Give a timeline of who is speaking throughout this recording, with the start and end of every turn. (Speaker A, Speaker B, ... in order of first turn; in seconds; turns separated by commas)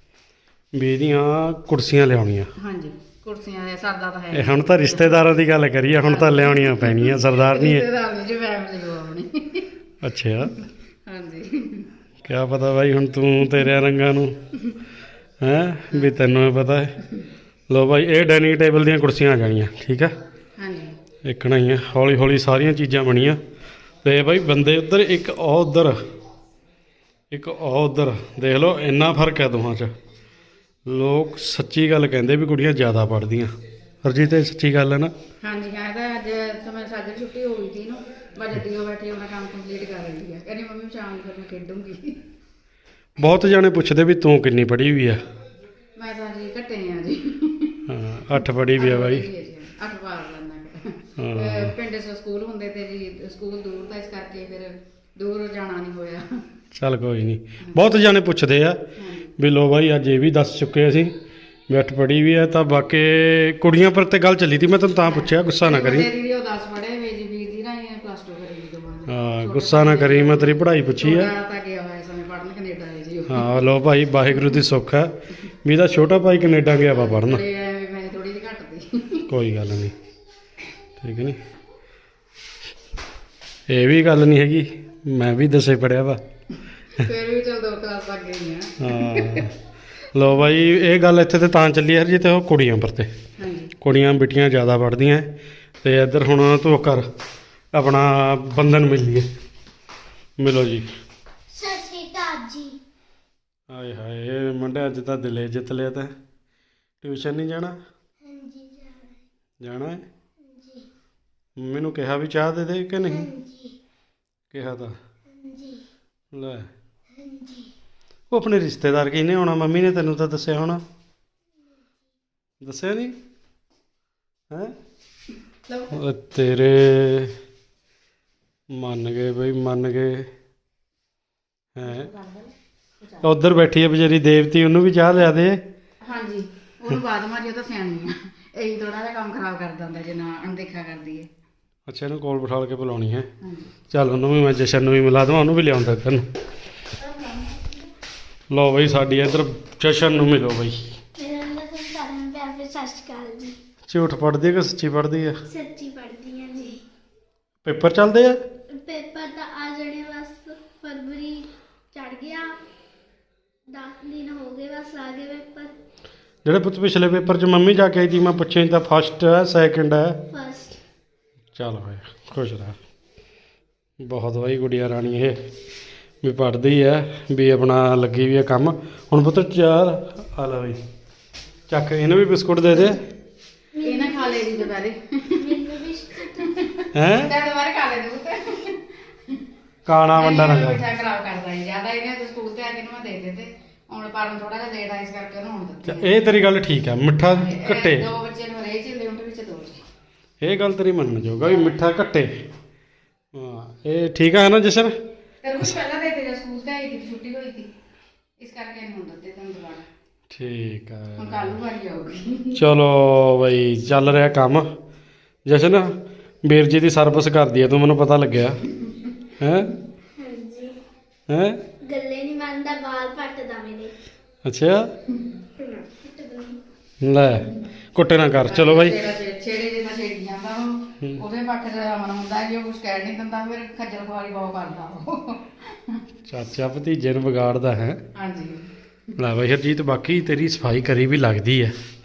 Speaker A: 0.7-2.5, Speaker B: 2.6-5.2, Speaker A: 4.3-7.8, Speaker B: 6.0-9.7, Speaker A: 10.0-10.5, Speaker B: 11.1-11.9, Speaker A: 12.2-14.3, Speaker A: 15.4-16.9, Speaker A: 17.7-20.1, Speaker B: 20.6-20.9, Speaker A: 21.2-23.4, Speaker A: 24.0-25.9, Speaker A: 27.3-29.9, Speaker A: 30.9-35.1, Speaker B: 35.4-42.2, Speaker A: 43.2-45.2, Speaker B: 46.0-47.8, Speaker A: 47.9-49.3, Speaker B: 48.8-56.2, Speaker A: 51.2-51.7, Speaker A: 56.7-58.8, Speaker B: 59.0-59.3, Speaker A: 59.4-61.1, Speaker A: 61.7-66.1, Speaker B: 65.6-73.5, Speaker A: 69.1-71.3, Speaker A: 73.3-77.4, Speaker B: 76.9-79.2, Speaker A: 79.3-79.9, Speaker A: 81.0-81.4, Speaker A: 83.7-86.2, Speaker B: 87.0-89.5, Speaker A: 88.8-89.5, Speaker A: 90.1-93.1, Speaker B: 93.4-93.7, Speaker A: 93.8-95.3, Speaker A: 95.8-97.0, Speaker A: 97.7-99.3, Speaker A: 100.4-100.9, Speaker C: 101.5-102.8, Speaker A: 103.7-106.1, Speaker A: 107.0-107.8, Speaker C: 108.2-109.1, Speaker A: 109.6-110.0, Speaker C: 110.5-110.8, Speaker A: 111.6-113.3, Speaker C: 113.1-113.8, Speaker A: 114.5-115.0, Speaker C: 115.3-115.8, Speaker A: 116.3-116.7, Speaker C: 117.1-117.7, Speaker A: 118.3-120.8, Speaker A: 122.6-123.2, Speaker A: 125.9-127.3, Speaker A: 128.7-130.3, Speaker A: 131.7-132.1, Speaker B: 131.8-133.3, Speaker A: 133.2-135.6, Speaker B: 136.0-141.3, Speaker A: 141.9-143.3, Speaker B: 143.4-143.7, Speaker A: 143.9-146.3, Speaker C: 147.0-147.8, Speaker A: 148.5-150.9, Speaker C: 151.2-153.6, Speaker A: 153.9-155.4, Speaker C: 155.5-156.8, Speaker A: 157.6-158.4, Speaker C: 158.7-162.6, Speaker C: 163.7-165.7, Speaker A: 166.4-170.2, Speaker C: 170.3-170.8, Speaker A: 171.6-172.8, Speaker A: 174.0-175.3, Speaker A: 176.2-180.8, Speaker A: 181.7-183.0, Speaker C: 183.7-184.8, Speaker B: 183.8-185.5, Speaker C: 185.3-186.6, Speaker B: 186.4-189.4, Speaker A: 186.9-187.3, Speaker A: 189.8-190.8, Speaker B: 190.1-196.1, Speaker A: 195.8-198.1, Speaker B: 197.3-199.8, Speaker A: 200.4-202.3, Speaker B: 201.4-201.8, Speaker A: 203.3-204.9, Speaker B: 205.4-207.7, Speaker B: 208.4-209.9, Speaker A: 210.3-211.6, Speaker B: 211.2-212.6, Speaker A: 212.6-214.7, Speaker A: 215.4-215.9, Speaker A: 216.4-218.6, Speaker A: 219.4-219.7, Speaker C: 220.2-220.8, Speaker A: 221.3-221.6, Speaker C: 221.8-223.9, Speaker A: 224.4-224.9, Speaker C: 225.6-226.6, Speaker A: 227.0-229.0, Speaker B: 228.4-236.0, Speaker A: 236.3-238.0, Speaker B: 238.1-238.7, Speaker A: 239.2-241.7